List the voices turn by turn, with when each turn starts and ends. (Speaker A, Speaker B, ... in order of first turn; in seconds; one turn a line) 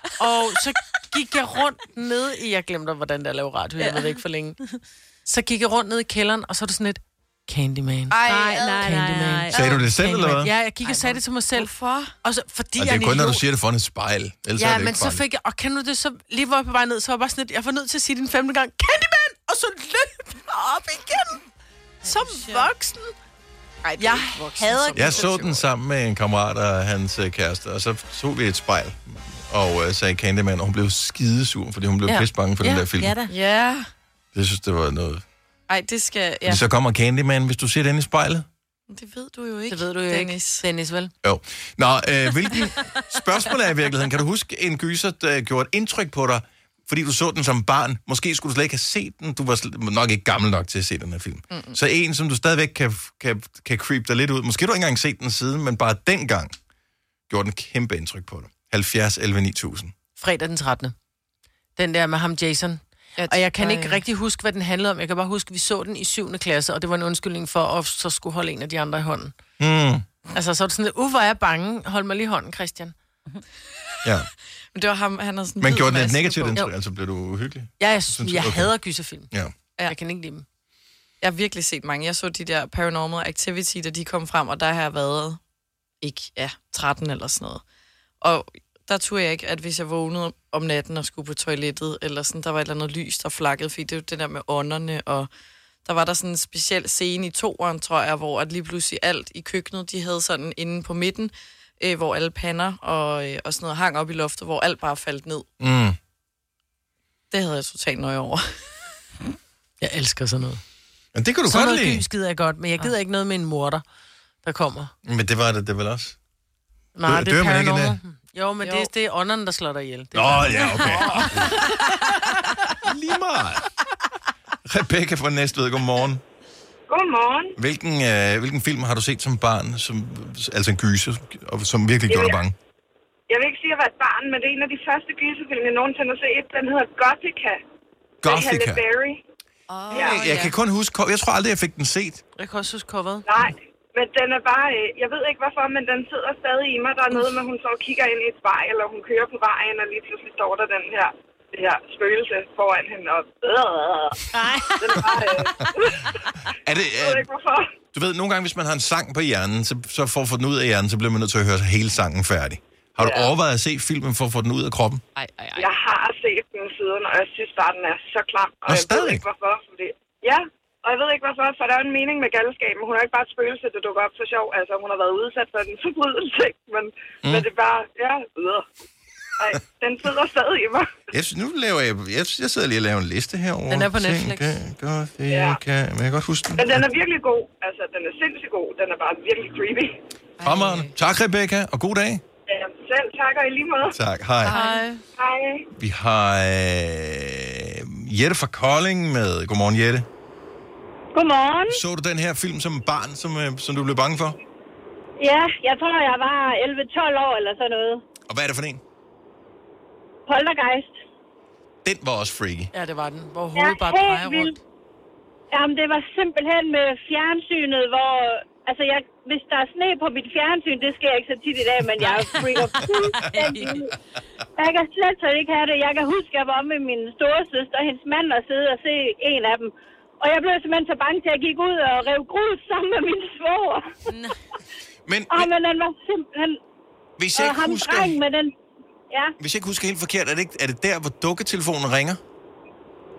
Speaker A: 0.2-13.4
Speaker B: 3.8-4.2
Speaker C: 8.1-8.8
Speaker B: 8.2-11.2
Speaker D: 9.5-10.5
Speaker C: 11.5-12.2
Speaker D: 12.8-15.2
Speaker A: 14.6-21.4
Speaker A: 22.0-23.1
Speaker B: 22.1-22.7
Speaker C: 23.8-25.6
Speaker A: 24.0-25.3
Speaker D: 25.0-33.1
Speaker B: 32.6-33.3
Speaker C: 33.3-33.9
Speaker D: 34.3-35.2
Speaker C: 35.7-36.6
Speaker D: 36.5-38.5
Speaker C: 38.9-40.6
Speaker A: 39.7-41.1
Speaker D: 41.2-56.6
Speaker C: 51.5-51.8
Speaker D: 57.3-60.0
Speaker A: 60.2-61.0
Speaker A: 61.8-69.3
Speaker C: 63.2-64.0
Speaker D: 69.6-70.0
Speaker A: 70.3-72.9
Speaker C: 74.7-76.5
Speaker D: 75.6-78.8
Speaker A: 76.3-76.7
Speaker A: 77.8-79.3
Speaker A: 79.8-80.5
Speaker C: 81.2-85.4
Speaker C: 86.0-87.6
Speaker C: 88.2-95.3
Speaker C: 95.8-105.5
Speaker D: 105.6-106.0
Speaker C: 107.3-108.7
Speaker A: 109.8-110.6
Speaker D: 111.2-112.0
Speaker A: 111.5-113.8
Speaker A: 114.4-114.9
Speaker D: 115.0-116.2
Speaker A: 117.0-122.1
Speaker D: 117.1-118.0
Speaker D: 120.1-121.7
Speaker D: 122.8-123.7
Speaker D: 124.7-126.2
Speaker E: 126.9-127.5
Speaker D: 127.6-132.6
Speaker E: 132.1-132.4
Speaker E: 133.3-137.6
Speaker D: 138.2-138.8
Speaker E: 138.2-139.2
Speaker C: 139.7-140.5
Speaker D: 139.9-142.2
Speaker E: 139.9-140.2
Speaker A: 142.4-143.3
Speaker E: 143.3-154.2
Speaker B: 154.3-154.8
Speaker E: 154.8-156.2
Speaker D: 155.1-155.7
Speaker D: 156.6-157.3
Speaker E: 156.8-157.7
Speaker D: 157.9-165.0
Speaker E: 163.0-163.3
Speaker C: 165.2-165.7
Speaker E: 165.6-178.7
Speaker D: 168.7-169.2
Speaker E: 179.4-181.0
Speaker D: 181.1-186.9
Speaker A: 183.7-184.5
Speaker E: 185.3-185.6
Speaker E: 186.6-189.9
Speaker C: 190.4-190.9
Speaker D: 190.4-192.2
Speaker E: 192.5-194.0
Speaker D: 193.9-194.6
Speaker C: 194.5-194.8
Speaker A: 194.5-195.0
Speaker E: 195.2-195.7
Speaker D: 195.8-200.1
Speaker F: 201.1-201.8
Speaker D: 201.7-204.4
Speaker F: 205.2-208.0
Speaker D: 208.3-208.8
Speaker F: 210.3-211.0
Speaker D: 211.8-212.7
Speaker A: 212.7-214.6
Speaker F: 213.6-214.6
Speaker F: 215.5-223.9
Speaker B: 222.0-223.8
Speaker F: 224.6-233.8
Speaker B: 234.1-234.4
Speaker D: 235.1-235.5
Speaker F: 235.3-236.6
Speaker D: 237.2-238.2
Speaker F: 237.3-238.5
Speaker D: 239.4-242.2